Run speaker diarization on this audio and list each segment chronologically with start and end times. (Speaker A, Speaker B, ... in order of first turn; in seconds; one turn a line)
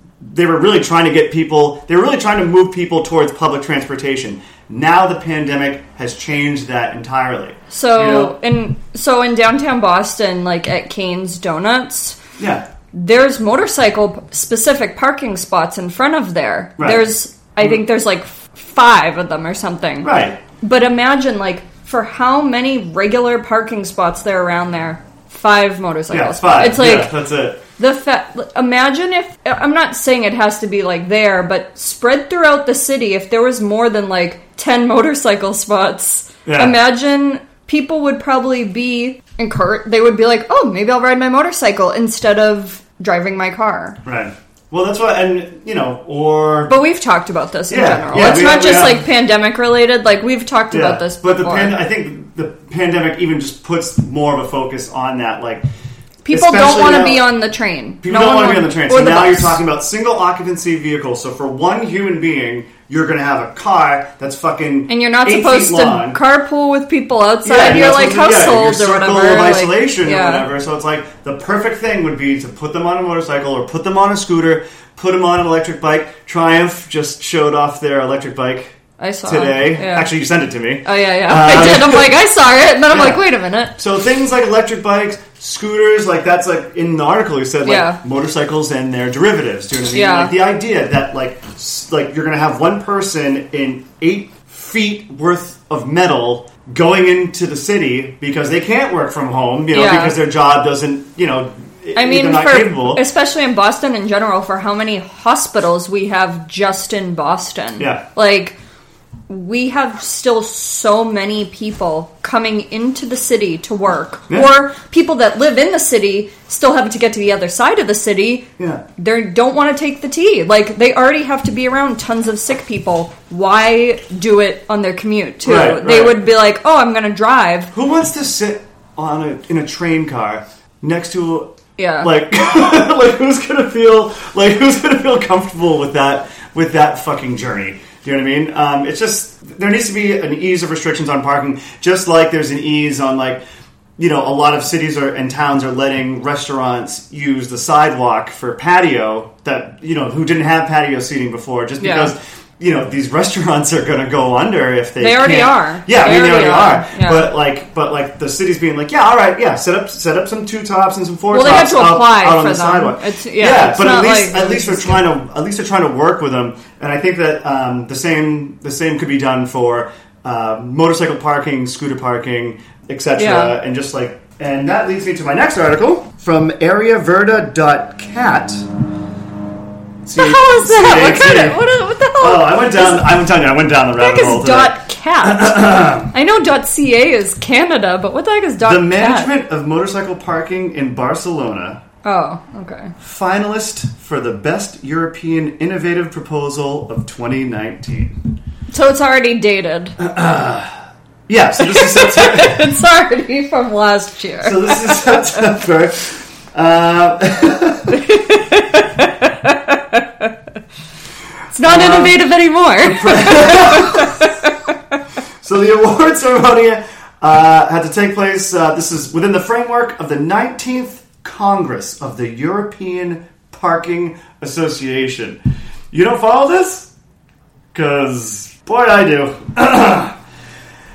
Speaker A: 0.2-8.3
Speaker B: 7.7-12.2
Speaker A: 12.4-12.6
Speaker B: 12.9-27.1
Speaker A: 16.8-17.8
Speaker A: 20.0-20.4
Speaker A: 26.1-27.6
Speaker B: 27.8-44.0
Speaker A: 36.4-36.8
Speaker A: 44.0-46.8
Speaker B: 46.7-51.8
Speaker A: 47.7-49.1
Speaker A: 50.7-55.6
Speaker B: 56.2-59.6
Speaker A: 56.3-57.3
Speaker A: 58.0-66.2
Speaker B: 64.9-70.5
Speaker A: 67.4-82.2
Speaker B: 79.0-80.1
Speaker B: 80.8-83.8
Speaker A: 82.9-83.2
Speaker A: 83.7-103.0
Speaker B: 87.6-88.0
Speaker B: 89.9-90.4
Speaker B: 99.7-100.2
Speaker B: 102.0-108.6
Speaker A: 107.8-108.0
Speaker B: 109.3-127.7
Speaker A: 114.3-114.6
Speaker A: 118.6-118.8
Speaker A: 125.4-126.2
Speaker A: 127.7-143.4
Speaker B: 131.8-132.2
Speaker A: 144.0-178.7
Speaker B: 151.8-152.1
Speaker B: 155.0-157.3
Speaker B: 161.3-165.1
Speaker B: 173.2-173.6
Speaker A: 180.0-181.6
Speaker B: 180.2-183.2
Speaker A: 182.2-186.1
Speaker B: 184.0-189.3
Speaker A: 188.6-191.8
Speaker B: 192.0-192.9
Speaker A: 193.0-198.2
Speaker B: 198.7-199.9
Speaker A: 200.0-200.8
Speaker A: 201.3-202.7
Speaker B: 201.6-205.0
Speaker A: 204.4-208.0
Speaker B: 207.9-210.3
Speaker B: 211.5-214.3
Speaker A: 211.6-212.2
Speaker A: 212.8-214.2
Speaker A: 215.4-225.4
Speaker A: 225.9-226.9
Speaker A: 227.7-230.2